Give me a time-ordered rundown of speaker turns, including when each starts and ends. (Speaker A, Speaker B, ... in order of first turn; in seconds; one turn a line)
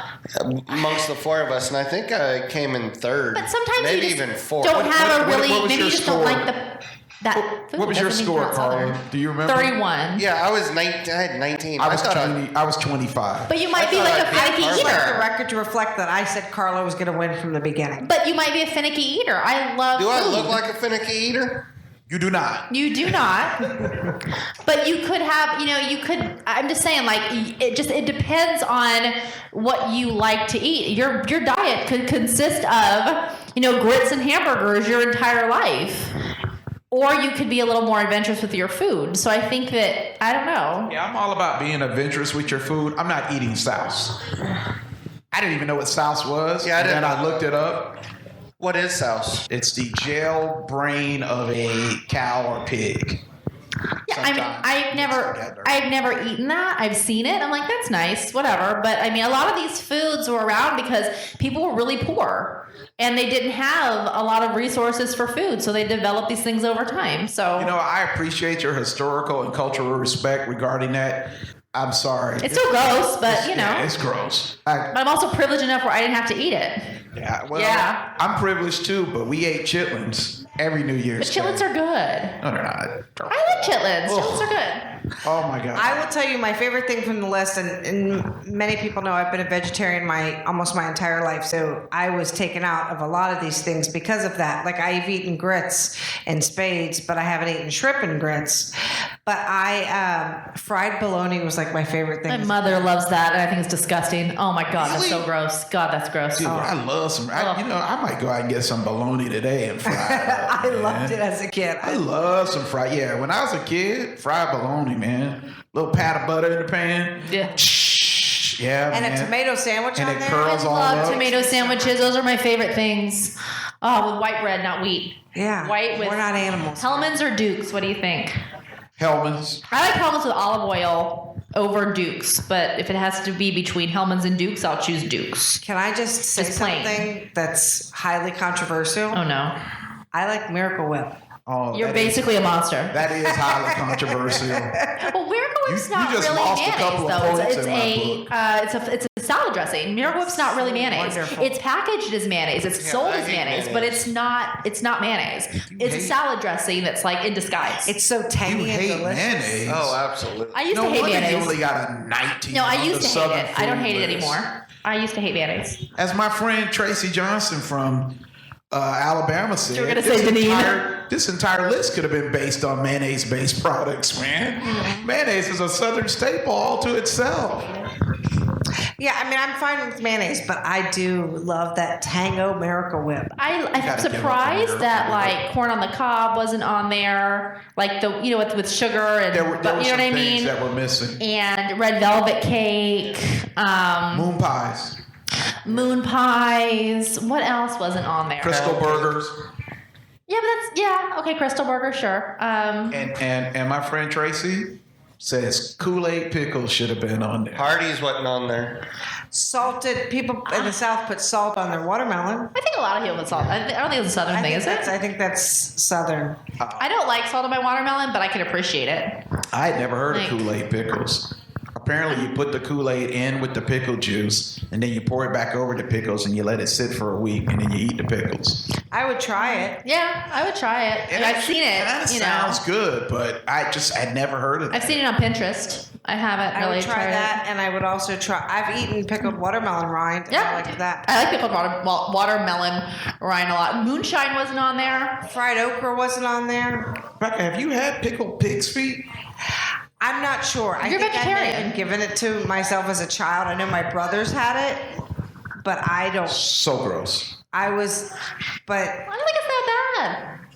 Speaker A: 0.4-4.8
Speaker B: 3.3-10.2
Speaker C: 4.7-6.5
Speaker C: 7.3-9.8
Speaker A: 10.2-12.4
Speaker C: 11.8-13.5
Speaker B: 13.5-15.2
Speaker A: 13.7-15.2
Speaker D: 14.2-18.1
Speaker B: 18.0-20.6
Speaker A: 19.9-21.7
Speaker C: 22.1-22.7
Speaker B: 22.7-23.7
Speaker B: 24.6-36.1
Speaker B: 36.9-40.9
Speaker C: 40.9-44.2
Speaker C: 45.3-48.0
Speaker A: 46.6-47.5
Speaker A: 48.6-49.5
Speaker C: 49.5-53.2
Speaker B: 54.1-67.7
Speaker C: 54.1-55.9
Speaker C: 67.6-74.9
Speaker B: 72.4-73.9
Speaker B: 74.9-76.9
Speaker C: 77.1-81.7
Speaker B: 77.5-78.0
Speaker B: 81.2-82.4
Speaker C: 82.4-84.5
Speaker B: 83.3-84.9
Speaker C: 85.2-86.0
Speaker D: 85.7-102.9
Speaker B: 102.3-106.5
Speaker A: 104.7-105.3
Speaker C: 106.4-111.2
Speaker D: 106.4-106.8
Speaker B: 107.3-107.6
Speaker D: 109.8-112.0
Speaker C: 111.8-119.3
Speaker B: 117.3-117.6
Speaker D: 118.9-122.1
Speaker C: 120.0-121.2
Speaker B: 120.4-128.4
Speaker D: 125.3-127.1
Speaker C: 129.0-129.6
Speaker B: 129.7-135.5
Speaker D: 135.5-139.2
Speaker B: 136.3-137.1
Speaker B: 139.1-139.6
Speaker D: 140.1-141.1
Speaker C: 141.4-142.3
Speaker B: 141.7-142.9
Speaker C: 142.9-144.8
Speaker D: 143.3-144.9
Speaker B: 145.0-157.9
Speaker C: 145.6-148.3
Speaker D: 150.0-151.6
Speaker A: 152.8-154.0
Speaker C: 155.7-156.2
Speaker D: 157.8-159.7
Speaker C: 158.4-160.0
Speaker A: 159.7-160.7
Speaker B: 160.5-161.6
Speaker C: 160.7-164.4
Speaker B: 162.5-165.8
Speaker C: 165.9-168.2
Speaker C: 168.7-177.8
Speaker B: 169.7-170.9
Speaker D: 174.6-175.1
Speaker D: 179.0-183.4
Speaker B: 183.4-190.5
Speaker C: 183.8-185.4
Speaker C: 189.3-191.2
Speaker B: 191.2-194.3
Speaker C: 194.1-195.0
Speaker B: 195.6-198.6
Speaker C: 195.7-196.0
Speaker C: 198.4-199.3
Speaker A: 198.4-199.1
Speaker B: 200.3-203.1
Speaker C: 202.9-207.8
Speaker A: 207.5-208.8
Speaker D: 209.3-212.5
Speaker B: 210.5-210.8
Speaker B: 212.5-214.9
Speaker D: 214.3-216.4
Speaker C: 216.6-216.9
Speaker B: 216.8-219.2
Speaker C: 219.5-228.7
Speaker B: 220.1-220.5
Speaker B: 222.1-222.4
Speaker D: 228.9-229.8
Speaker B: 229.5-232.6
Speaker C: 231.1-235.0
Speaker B: 234.7-237.4
Speaker D: 236.5-241.1
Speaker B: 240.3-245.2
Speaker D: 245.2-246.9
Speaker C: 247.2-249.1
Speaker D: 250.0-255.0
Speaker B: 250.8-251.8
Speaker D: 255.6-256.4
Speaker C: 256.3-257.3
Speaker D: 257.5-258.1
Speaker D: 258.6-259.1
Speaker B: 259.1-260.2